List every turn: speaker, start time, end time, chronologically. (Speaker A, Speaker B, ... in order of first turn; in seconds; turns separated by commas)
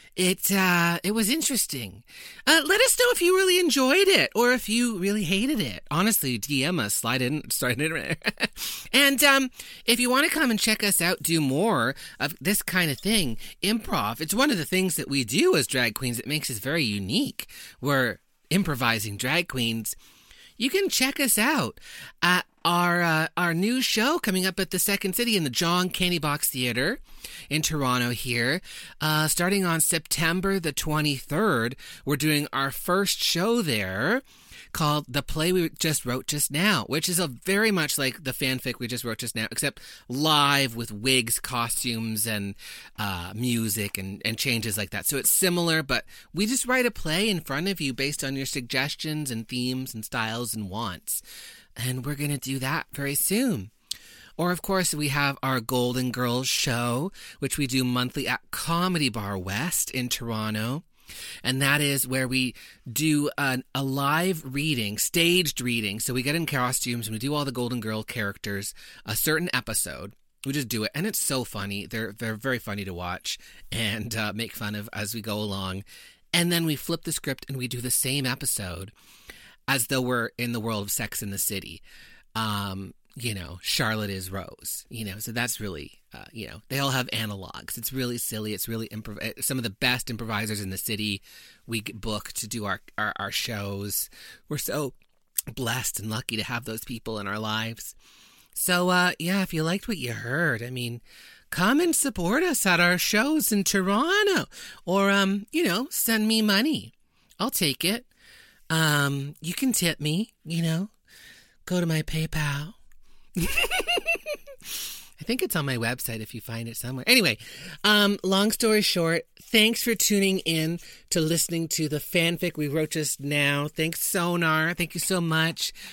Speaker A: 0.2-20.0, Speaker A: 20.6-51.2, Speaker A: 51.8-53.7, Speaker A: 54.4-60.9, Speaker A: 61.4-78.9, Speaker A: 79.7-81.8, Speaker A: 82.3-95.0, Speaker A: 95.5-98.0, Speaker A: 98.5-108.1, Speaker A: 108.7-110.9, Speaker A: 111.7-112.8, Speaker A: 113.4-125.8